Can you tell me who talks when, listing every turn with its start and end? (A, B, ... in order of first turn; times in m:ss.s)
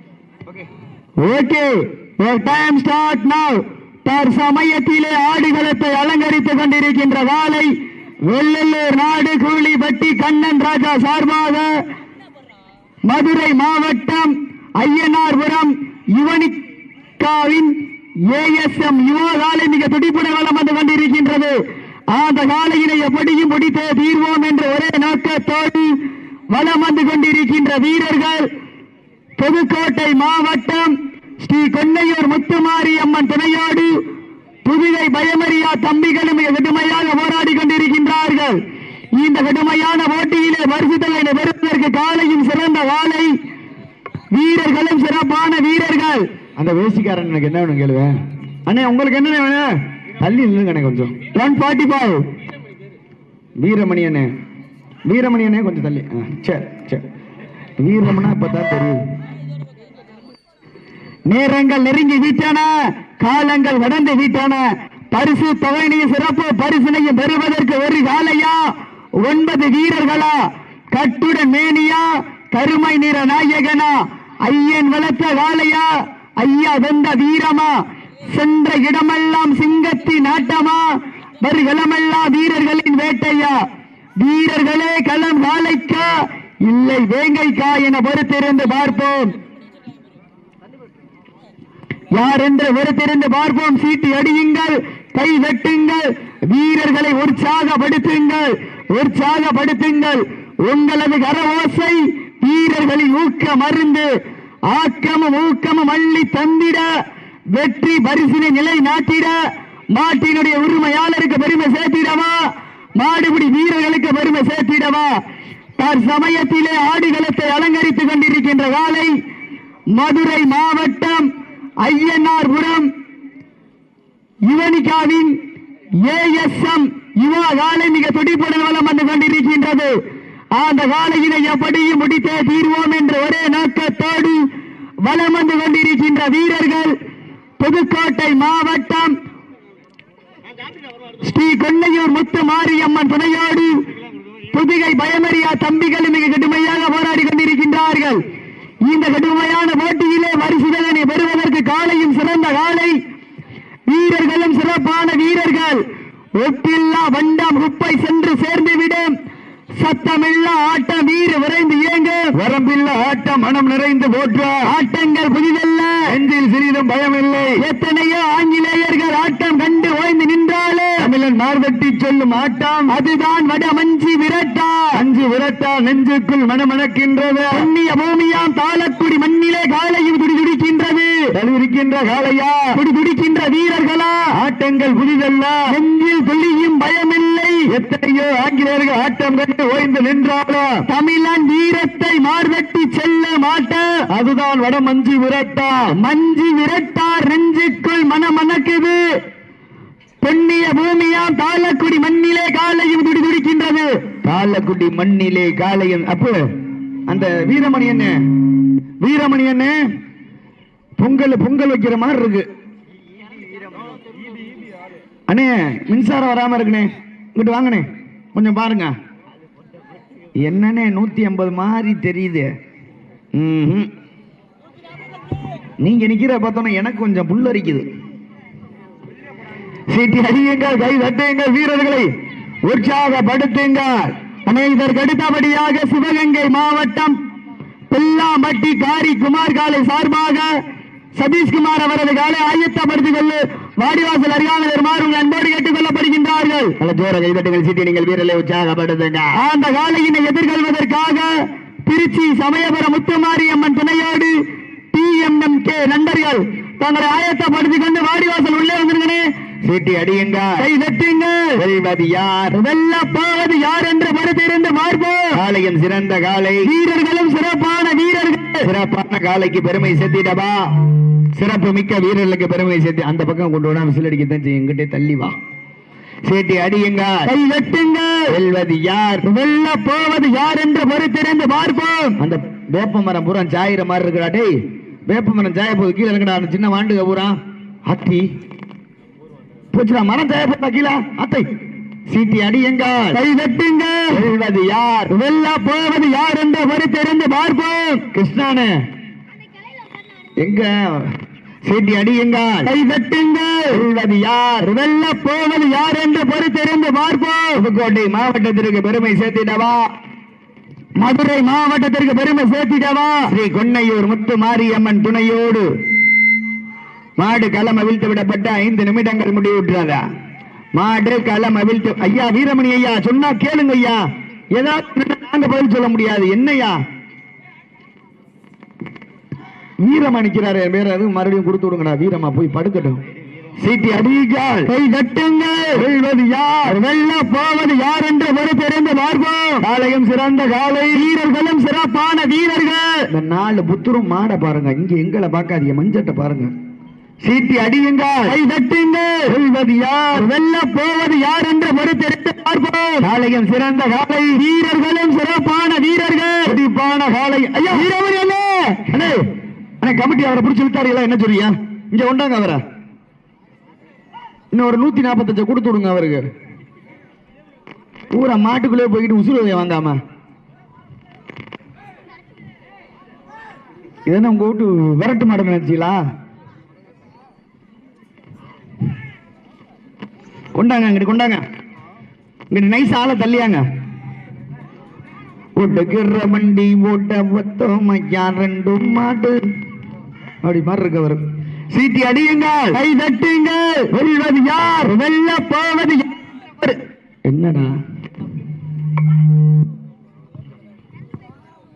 0:01.2-0:07.7 A
0:08.2-0:11.8 A
0:13.0-0:16.6 A
0:17.2-0:17.8 A
0:18.3-0:21.6 A
0:22.1-0:26.0 A
0:26.5-0:28.5 A
0:29.4-0:34.0 A
0:34.6-0:38.6 A
0:39.2-0:43.3 A
0:44.3-0:46.2 A
0:46.6-0:48.1 B
0:48.6-0:51.1 B
0:51.3-0:52.2 A
0:53.6-0:54.3 B
0:55.1-0:57.0 B
0:57.8-0:59.0 B
1:01.3-1:08.7 A
1:09.2-1:17.8 A
1:18.3-1:23.6 A
1:24.2-1:29.3 A
1:32.1-1:44.1 A
1:44.7-1:46.9 A
1:47.5-1:49.4 A
1:49.9-1:52.4 A
1:53.0-1:55.1 A
1:55.8-1:59.1 A
1:59.9-2:01.3 A
2:01.8-2:02.9 A
2:04.4-2:05.4 A
2:06.0-2:09.9 A
2:10.5-2:14.4 A
2:15.0-2:16.9 A
2:17.6-2:19.1 A
2:21.2-2:23.7 A
2:24.5-2:28.2 A
2:28.8-2:32.9 A
2:33.9-2:35.8 A
2:36.4-2:39.1 A
2:39.8-2:42.3 A
2:42.3-2:44.7 B
2:44.6-2:46.1 A
2:46.1-2:47.6 B
2:47.6-2:51.1 A
2:51.0-2:52.9 B
2:52.9-2:55.0 A
2:54.9-2:57.7 B
2:57.5-3:01.2 A
3:01.3-3:02.8 B
3:02.7-3:04.3 A
3:04.3-3:05.7 B
3:05.7-3:07.7 A
3:07.7-3:10.8 B
3:10.8-3:14.0 A
3:14.1-3:15.9 B
3:15.9-3:19.0 A
3:20.2-3:23.9 A
3:24.2-3:26.4 B
3:27.1-3:28.2 B
3:29.0-3:29.8 B
3:31.0-3:32.4 B
3:35.3-3:38.9 B
3:40.4-3:42.5 B
3:43.4-3:43.9 B
3:45.8-3:47.8 B
3:49.9-3:52.1 B
3:52.6-3:54.1 B
3:54.4-3:57.1 A
3:57.9-4:00.5 A
4:01.1-4:06.7 A
4:06.8-4:09.4 B
4:09.3-4:11.3 A
4:11.8-4:14.3 A
4:14.9-4:19.2 A
4:19.6-4:20.6 B
4:20.6-4:21.6 A
4:21.6-4:22.6 B
4:22.5-4:25.4 A
4:25.3-4:26.7 B
4:26.6-4:28.7 A
4:28.6-4:30.7 B
4:31.3-4:35.3 B
4:36.2-4:37.3 B
4:37.2-4:38.2 A
4:38.3-4:39.2 B
4:39.2-4:42.2 A
4:42.2-4:44.5 B
4:45.1-4:47.4 B
4:47.9-4:48.2 B
4:49.7-4:51.4 B
4:52.1-4:53.2 B
4:53.1-4:54.2 A
4:54.1-4:55.1 B
4:55.1-4:58.0 A
4:58.1-4:58.8 B
5:00.4-5:01.1 B
5:01.6-5:02.7 B
5:02.6-5:03.8 A
5:03.7-5:04.7 B
5:04.6-5:07.6 A
5:07.6-5:09.9 B
5:11.0-5:13.3 A
5:13.3-5:15.7 B
5:17.2-5:20.0 B
5:20.7-5:26.8 B
5:29.8-5:33.0 B
5:33.6-5:34.7 B
5:34.7-5:35.8 A
5:35.8-5:36.8 B
5:36.6-5:39.6 A
5:39.6-5:41.0 B
5:40.9-5:42.9 A
5:43.1-5:46.5 B
5:47.2-5:48.3 B
5:48.2-5:49.3 A
5:49.3-5:50.3 B
5:50.1-5:53.1 A
5:53.0-5:54.4 B
5:54.3-5:56.6 A
5:56.5-5:57.9 B
5:57.6-5:58.8 A
5:58.9-5:59.2 B
5:59.8-6:02.6 B
6:04.5-6:06.2 B
6:08.1-6:10.0 B
6:14.1-6:16.0 B
6:20.5-6:21.4 B
6:22.5-6:23.6 B
6:25.6-6:29.4 B
6:30.4-6:32.8 B
6:32.7-6:36.2 A
6:37.2-6:37.7 B